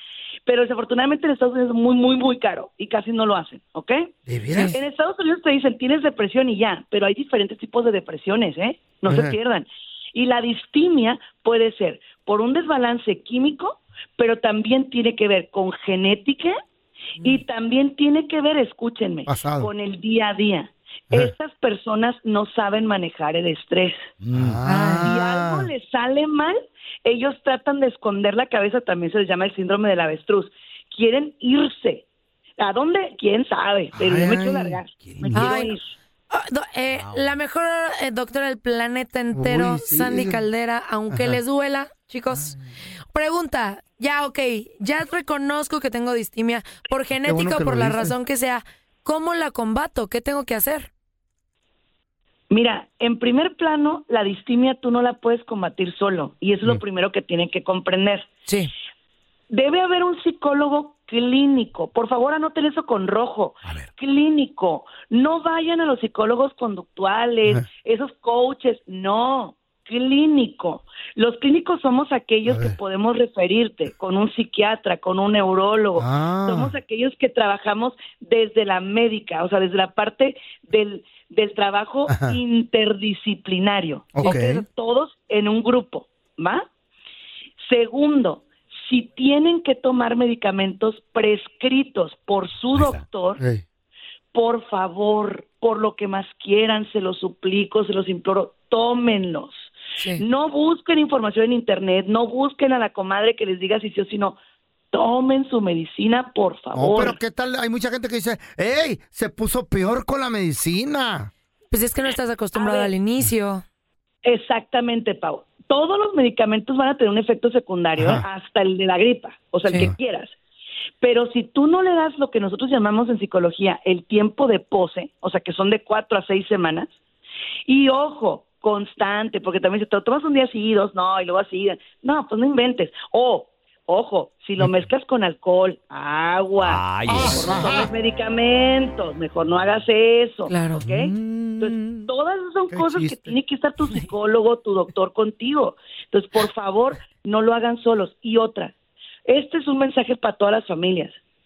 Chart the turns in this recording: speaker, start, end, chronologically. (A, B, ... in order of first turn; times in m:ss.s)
0:00.5-0:04.1 A
0:04.3-0:04.8 B
0:04.7-0:16.6 A
0:09.1-0:09.4 B
0:17.2-0:24.1 A
0:19.3-0:19.7 B
0:24.2-0:24.6 C
0:24.3-0:25.7 B
0:24.7-0:25.1 D
0:25.0-0:32.1 A
0:32.6-0:35.9 A
0:34.0-0:34.8 B
0:35.0-0:35.4 C
0:35.3-0:35.7 D
0:36.3-0:42.6 D
0:36.9-0:37.3 C
0:39.3-0:40.4 B
0:41.1-0:41.4 B
0:43.1-0:50.9 D
0:47.2-0:48.2 B
0:52.5-0:58.3 A
0:59.5-1:26.6 A
1:12.5-1:12.8 B
1:16.0-1:16.8 B
1:22.1-1:22.4 B
1:24.2-1:24.6 B
1:27.6-1:33.4 A
1:32.8-1:33.0 C
1:33.4-1:33.6 B
1:34.3-1:44.4 A
1:44.9-1:47.2 A
1:46.8-1:51.3 B
1:51.7-1:53.6 D
1:52.6-1:52.9 A
1:54.2-2:00.4 A
1:58.0-1:58.3 B
2:01.0-2:06.9 A
2:07.7-2:28.7 A
2:16.6-2:17.6 C
2:17.1-2:17.9 B
2:20.5-2:20.8 D
2:20.8-2:22.1 B
2:22.7-2:23.4 B
2:29.3-2:31.2 A